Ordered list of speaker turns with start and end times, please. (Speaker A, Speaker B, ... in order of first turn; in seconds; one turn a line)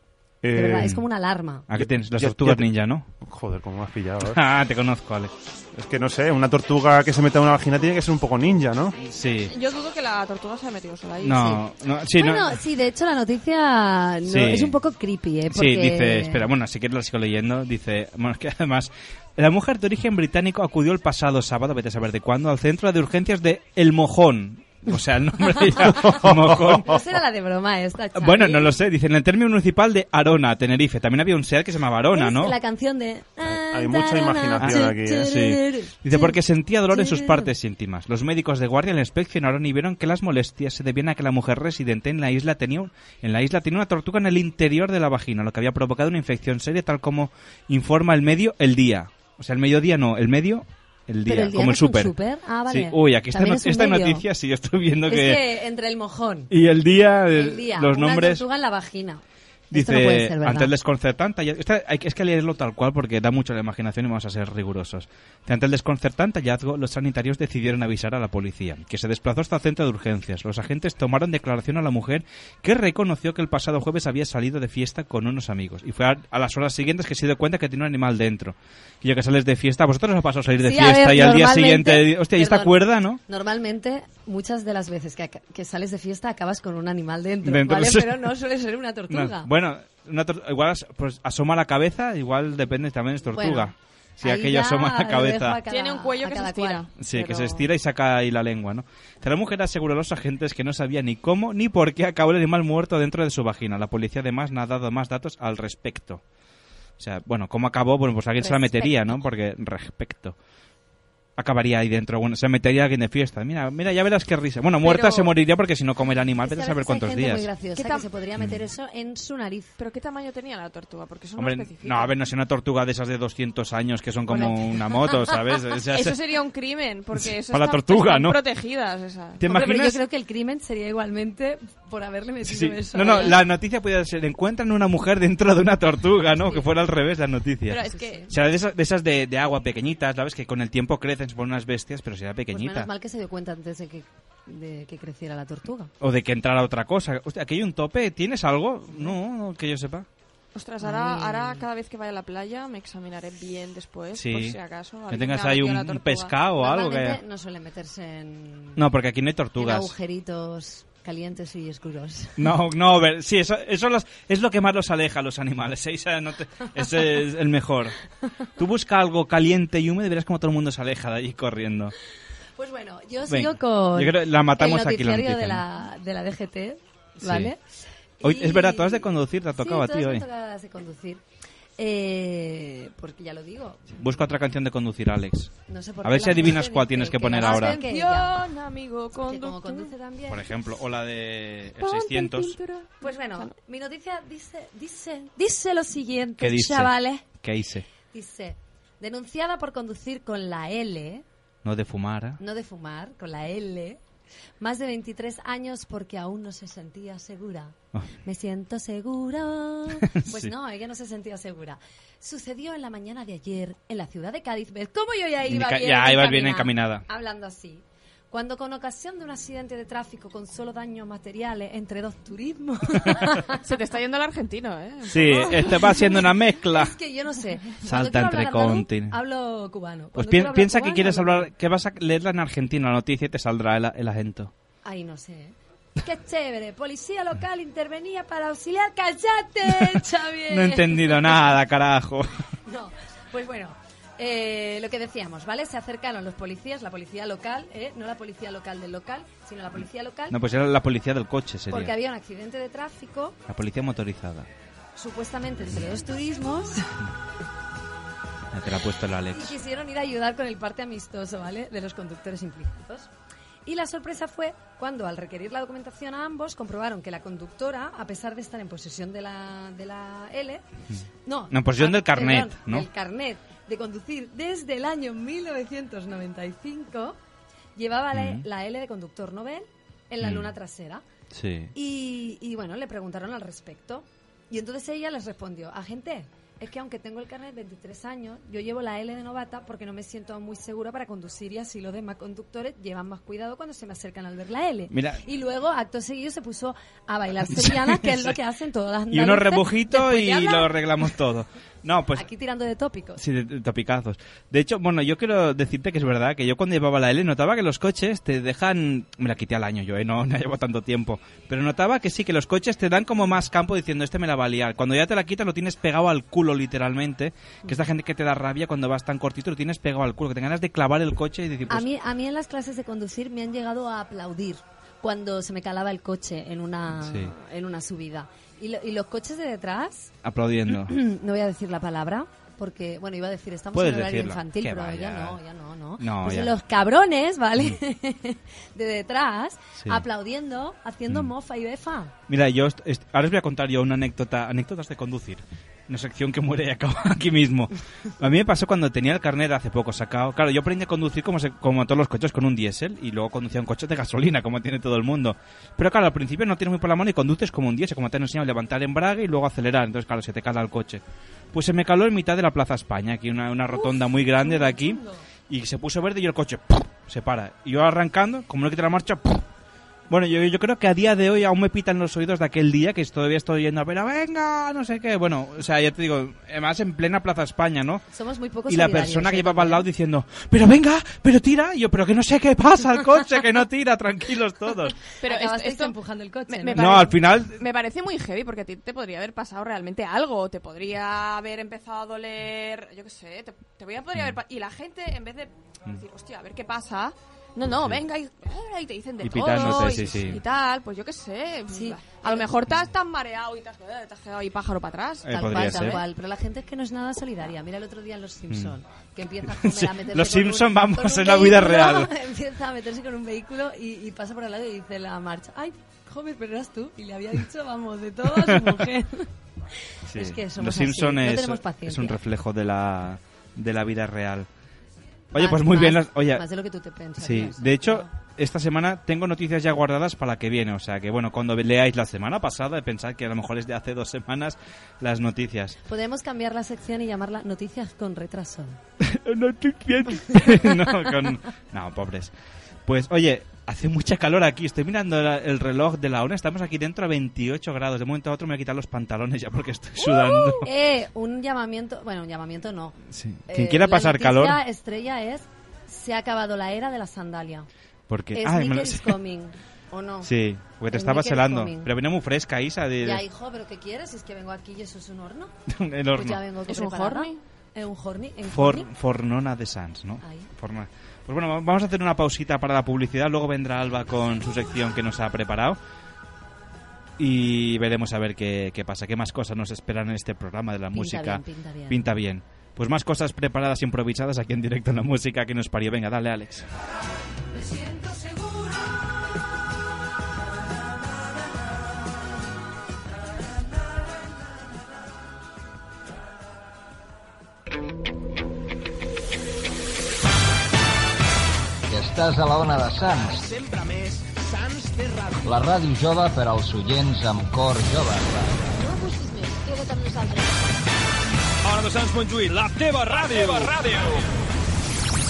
Speaker A: 0.4-0.9
Speaker B: 0.5-1.6
Speaker C: 1.7-3.0
Speaker A: 1.8-2.6
Speaker A: 3.2-4.4
Speaker C: 4.3-5.3
Speaker A: 5.7-8.9
Speaker C: 9.1-9.5
Speaker D: 9.5-11.6
Speaker C: 11.2-12.6
Speaker B: 12.2-16.4
Speaker C: 14.2-14.8
Speaker C: 15.5-27.0
Speaker B: 25.5-28.7
Speaker A: 26.0-26.8
Speaker C: 28.1-32.5
Speaker B: 32.1-36.4
Speaker A: 33.4-35.4
Speaker C: 34.6-52.1
Speaker B: 36.9-37.5
Speaker B: 51.3-54.2
Speaker C: 52.7-55.4
Speaker B: 55.1-56.5
Speaker C: 56.5-58.4
Speaker B: 57.3-60.7
Speaker C: 59.7-83.2
Speaker B: 80.6-89.5
Speaker C: 87.4-88.3
Speaker C: 89.1-95.6
Speaker B: 93.3-96.8
Speaker D: 95.7-97.6
Speaker C: 97.0-106.2
Speaker C: 107.0-110.3
Speaker B: 108.4-109.2
Speaker C: 111.4-117.5
Speaker D: 114.8-115.3
Speaker B: 116.4-119.8
Speaker D: 117.8-118.1
Speaker D: 119.8-122.1
Speaker C: 121.4-126.2
Speaker B: 124.3-125.3
Speaker D: 125.9-129.4
Speaker C: 127.2-128.4
Speaker C: 129.4-130.0
Speaker B: 129.4-133.4
Speaker C: 132.4-142.9
Speaker D: 137.7-138.3
Speaker B: 137.9-138.3
Speaker B: 142.5-145.9
Speaker C: 146.0-150.1
Speaker D: 150.5-156.3
Speaker B: 150.8-151.7
Speaker C: 154.1-154.6
Speaker C: 155.1-157.2
Speaker B: 156.6-158.8
Speaker C: 158.8-159.9
Speaker B: 159.6-162.4
Speaker C: 162.4-167.9
Speaker C: 168.6-171.9
Speaker B: 172.6-177.6
Speaker C: 173.3-175.6
Speaker C: 177.2-177.5
Speaker B: 178.2-181.2
Speaker C: 178.2-180.2
Speaker B: 181.8-184.2
Speaker C: 184.0-187.8
Speaker B: 185.7-188.4
Speaker D: 187.4-189.9
Speaker B: 189.2-190.4
Speaker C: 190.3-192.6
Speaker D: 191.8-193.5
Speaker B: 193.0-197.2
Speaker C: 196.4-197.8
Speaker B: 198.1-201.2
Speaker C: 201.6-202.4
Speaker B: 202.4-204.0
Speaker B: 204.6-223.6
Speaker C: 210.0-210.5
Speaker C: 215.5-217.0
Speaker D: 223.6-225.9
Speaker C: 225.1-226.9
Speaker B: 226.7-231.5
Speaker C: 227.8-229.2
Speaker C: 230.2-234.5
Speaker B: 234.8-241.5
Speaker C: 239.7-242.3
Speaker B: 242.7-250.4
Speaker C: 250.3-251.9
Speaker B: 251.7-253.4
Speaker C: 253.5-254.5
Speaker B: 254.9-256.9
Speaker C: 258.5-259.5
Speaker B: 259.3-263.1
Speaker B: 263.6-270.6
Speaker C: 270.9-272.9
Speaker B: 271.2-277.2
Speaker B: 277.8-281.0
Speaker C: 278.1-278.4
Speaker C: 280.2-280.5
Speaker C: 281.3-281.7
Speaker B: 281.7-300.7
Speaker C: 294.9-295.2
Speaker C: 297.5-298.3
Speaker C: 299.1-302.2
Speaker B: 302.1-303.2
Speaker C: 303.2-321.9
Speaker B: 321.7-330.1
Speaker C: 326.9-327.3
Speaker C: 330.2-331.0
Speaker B: 330.7-342.1
Speaker C: 333.7-335.4
Speaker C: 336.0-336.5
Speaker C: 342.3-361.0
Speaker C: 361.5-369.4
Speaker B: 363.7-365.2
Speaker C: 370.1-378.0
Speaker B: 378.1-379.8
Speaker C: 378.7-385.0
Speaker D: 385.2-385.9
Speaker B: 385.2-387.0
Speaker D: 386.5-406.0
Speaker C: 386.8-387.5
Speaker C: 399.2-400.4
Speaker B: 401.7-402.5
Speaker C: 405.2-406.0
Speaker B: 405.3-419.2
Speaker C: 409.5-412.1
Speaker C: 418.3-418.8
Speaker C: 420.1-424.5
Speaker B: 420.1-422.2
Speaker C: 425.3-426.4
Speaker B: 425.4-428.1
Speaker C: 427.2-435.8
Speaker B: 435.9-438.8
Speaker C: 439.0-442.3
Speaker C: 442.9-450.7
Speaker B: 450.6-452.9
Speaker C: 453.1-454.6
Speaker B: 453.5-457.7
Speaker C: 458.1-459.1
Speaker B: 458.3-460.3
Speaker C: 460.2-463.2
Speaker B: 460.9-461.9
Speaker B: 463.0-465.5
Speaker C: 465.7-466.4
Speaker B: 466.1-468.9
Speaker D: 466.7-467.4
Speaker C: 468.5-475.8
Speaker B: 470.2-470.5
Speaker C: 477.2-486.7
Speaker B: 480.9-482.0
Speaker E: 501.9-503.5
Speaker E: 505.4-508.7
Speaker F: 508.7-510.8
Speaker G: 511.6-514.2